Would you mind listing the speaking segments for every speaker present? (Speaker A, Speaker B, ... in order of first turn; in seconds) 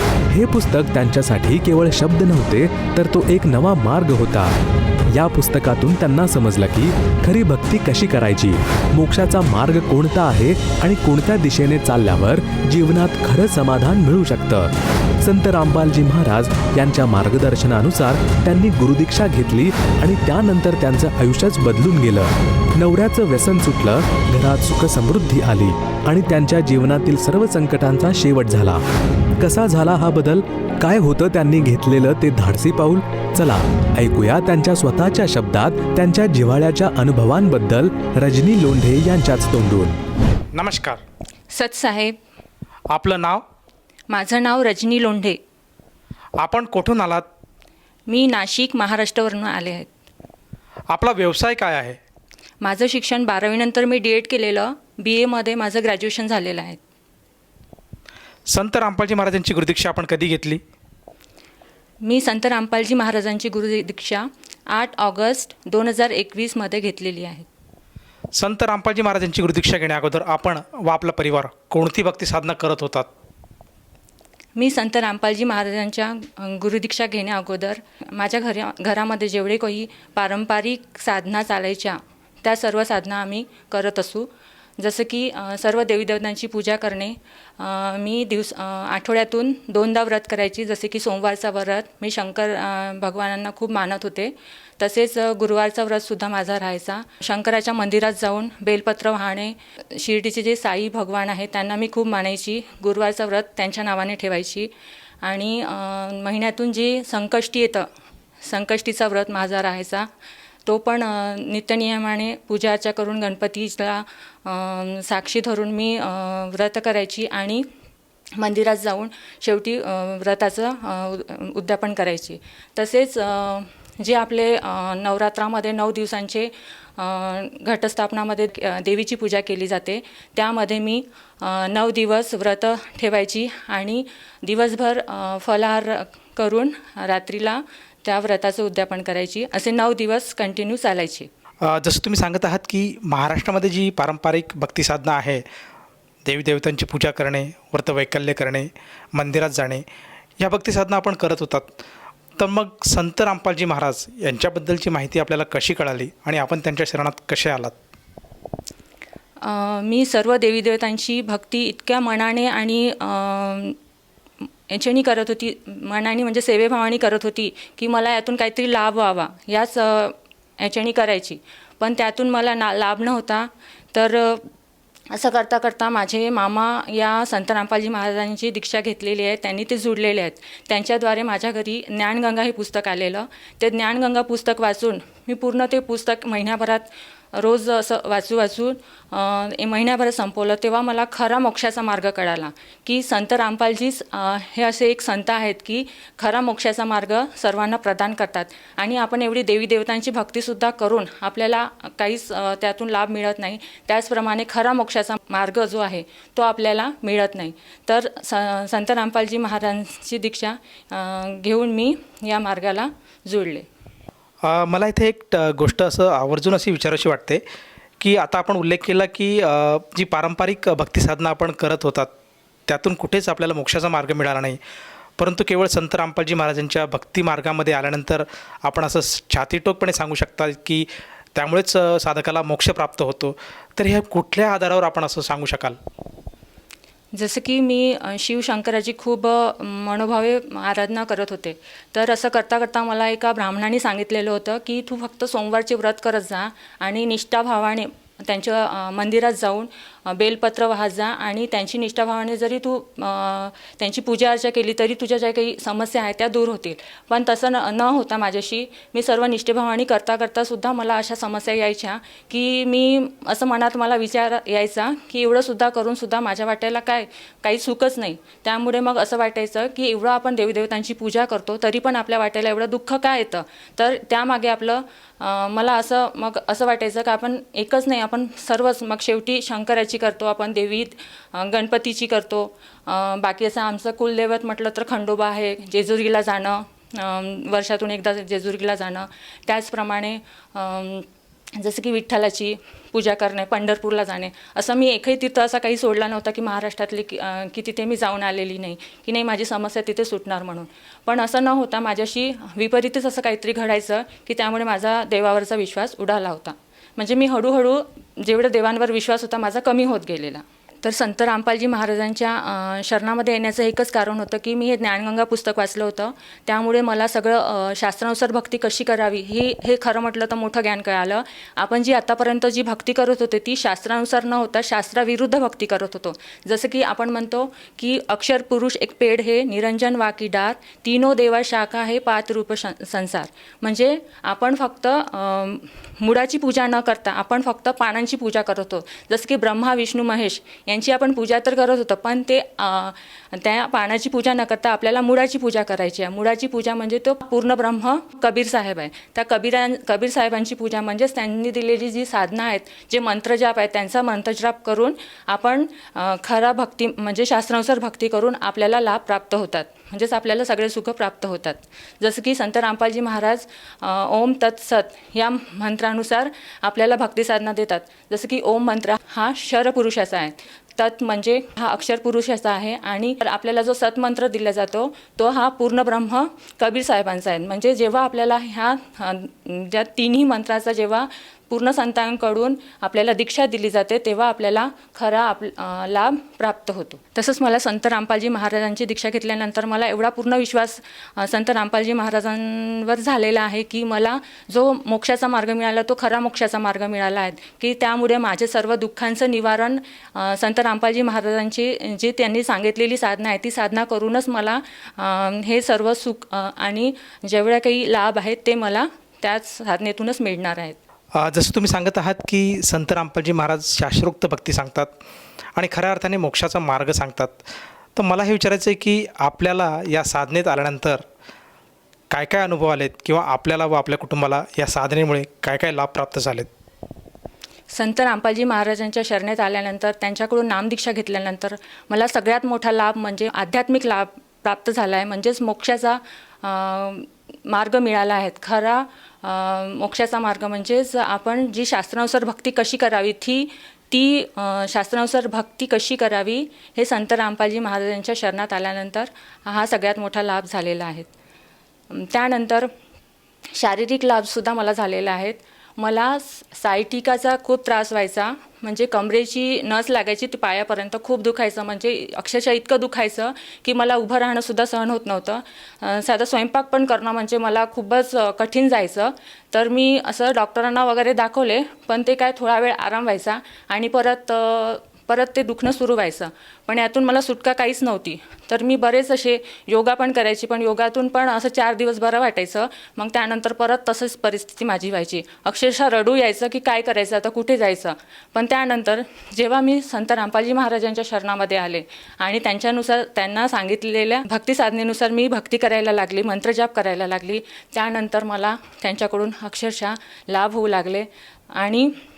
Speaker A: 0.3-4.5, 5.1-14.7, 15.2-28.8, 29.4-40.0
Speaker B: 40.5-41.0, 42.9-43.4, 46.4-47.2, 50.9-52.0, 58.5-60.6, 68.3-73.1, 141.6-145.4, 146.2-149.8, 150.4-151.8, 152.4-157.7, 214.4-217.4, 218.0-222.1, 222.7-224.6, 225.2-235.8, 411.1-414.9, 415.5-417.4, 417.9-421.0, 422.1-426.5
Speaker C: 41.5-42.1, 44.1-45.4, 48.1-49.9, 52.6-56.8, 62.0-67.5, 74.5-104.7, 105.2-107.9, 108.4-110.1, 110.7-117.7, 118.4-141.3, 159.4-163.8, 164.7-174.5, 175.1-213.7, 237.1-410.8, 427.7-451.1, 451.9-452.7, 453.5-501.9